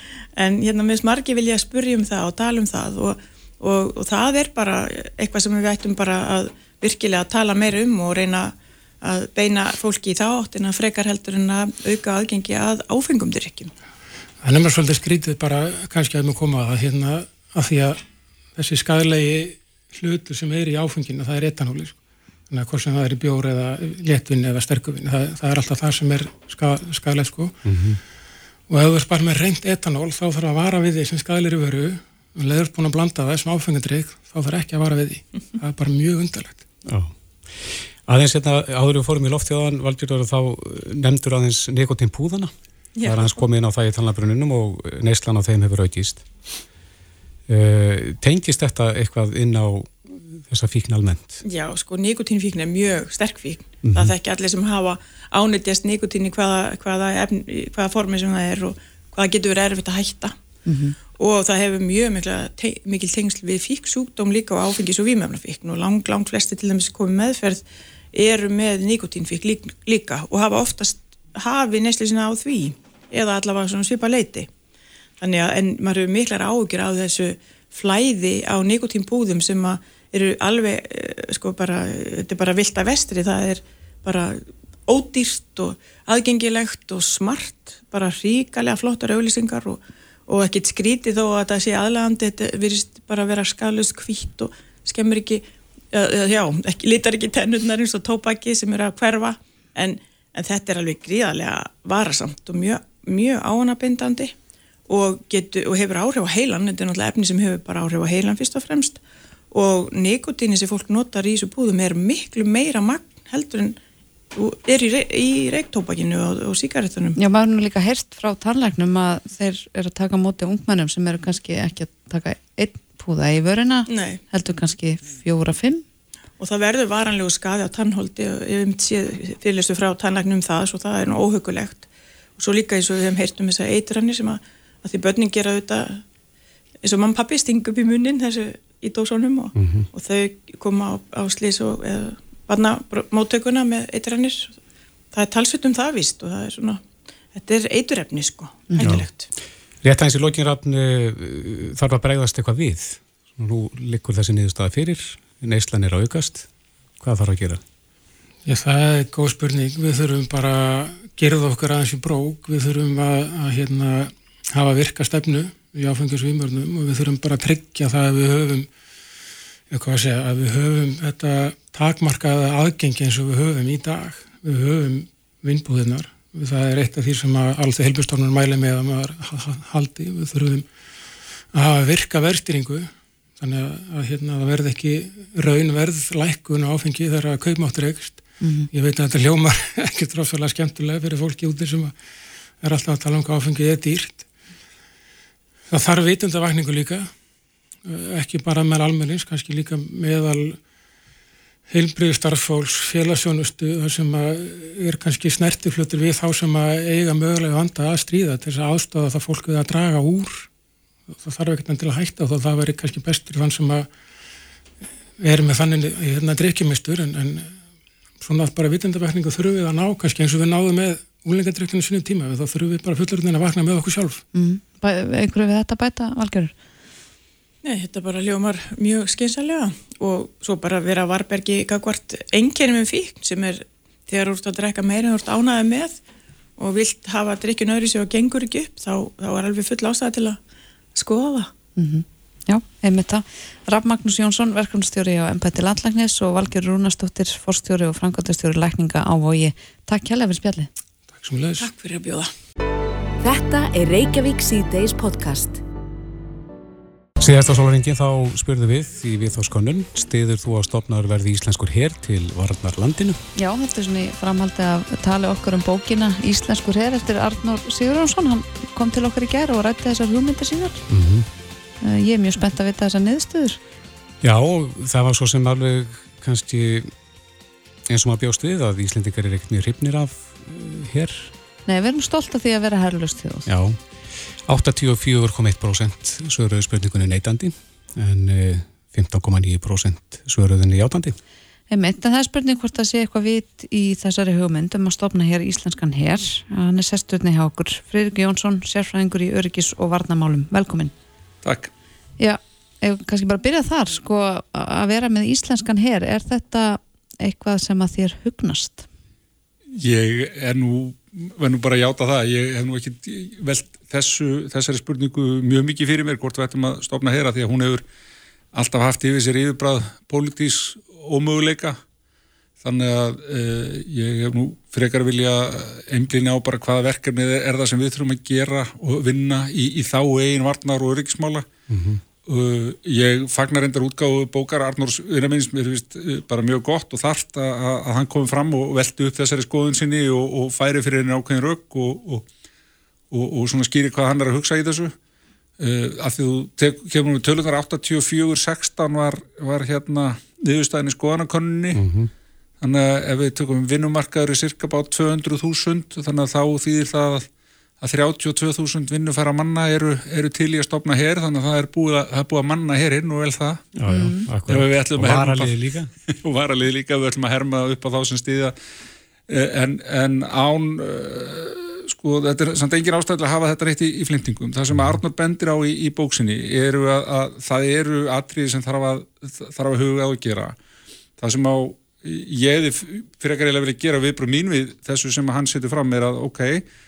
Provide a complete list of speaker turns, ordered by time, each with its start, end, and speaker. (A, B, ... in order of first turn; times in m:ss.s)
0:00.4-0:13.7 A
0:14.4-0:18.0 B
0:18.6-0:22.0 B
0:22.5-0:27.6 B
0:27.6-0:28.0 C
0:28.7-0:36.6 B
0:36.9-0:46.3 C
0:43.0-0:43.4 A
0:47.5-0:51.4 C
0:51.4-1:00.4 A
0:53.8-0:54.1 C
1:00.7-1:01.0 D
1:01.1-1:14.5 A
1:15.2-1:44.3 A
1:44.9-1:49.0 A
1:49.5-1:53.8 A
1:54.4-1:57.2 A
1:57.2-2:05.8 D
2:03.9-2:04.2 A
2:06.4-2:11.9 A
2:12.4-2:16.0 A
2:16.8-2:24.6 A
2:19.6-2:19.9 C
2:25.1-2:26.8 A
2:27.3-2:29.3 A
2:29.8-2:36.5 C
2:37.0-2:37.6 C
2:38.4-2:48.7 B
2:49.7-3:00.7 B
3:01.5-3:12.0 B
3:08.4-3:08.7 D
3:12.6-3:14.2 B
3:15.7-3:17.1 B
3:17.8-3:20.6 B
3:21.7-3:30.5 B
3:31.2-3:33.9 B
3:35.2-3:37.5 B
3:38.2-3:44.2 B
3:44.3-3:46.5 D
3:47.6-3:56.0 A
3:56.6-4:00.4 A
4:01.0-4:01.5 A
4:01.8-4:10.7 D
4:11.2-4:11.7 B
4:11.6-4:12.3 A
4:13.2-4:15.6 E
4:17.2-4:23.2 C
4:23.4-4:30.8 D
4:30.9-4:31.3 C
4:31.8-4:33.6 D
4:34.2-4:36.9 C
4:37.9-4:41.3 C
4:41.7-4:43.5 D
4:43.5-4:51.2 C
4:51.7-5:00.9 D
5:01.4-5:01.7 F
5:02.2-5:08.9 D
5:09.8-5:17.8 F
5:18.5-5:21.8 F
5:22.6-5:31.5 F
5:31.7-5:32.0 C
5:32.3-5:42.3 F
5:43.1-5:44.9 F
5:45.6-5:51.8 F
5:51.7-5:52.1 C
5:52.6-5:57.3 F
5:57.8-6:03.7 F
6:03.8-6:05.9 C
6:03.9-6:04.3 D
6:04.5-6:05.6 F
6:06.2-6:08.5 F
6:09.3-6:20.6 F
6:21.2-6:26.6 F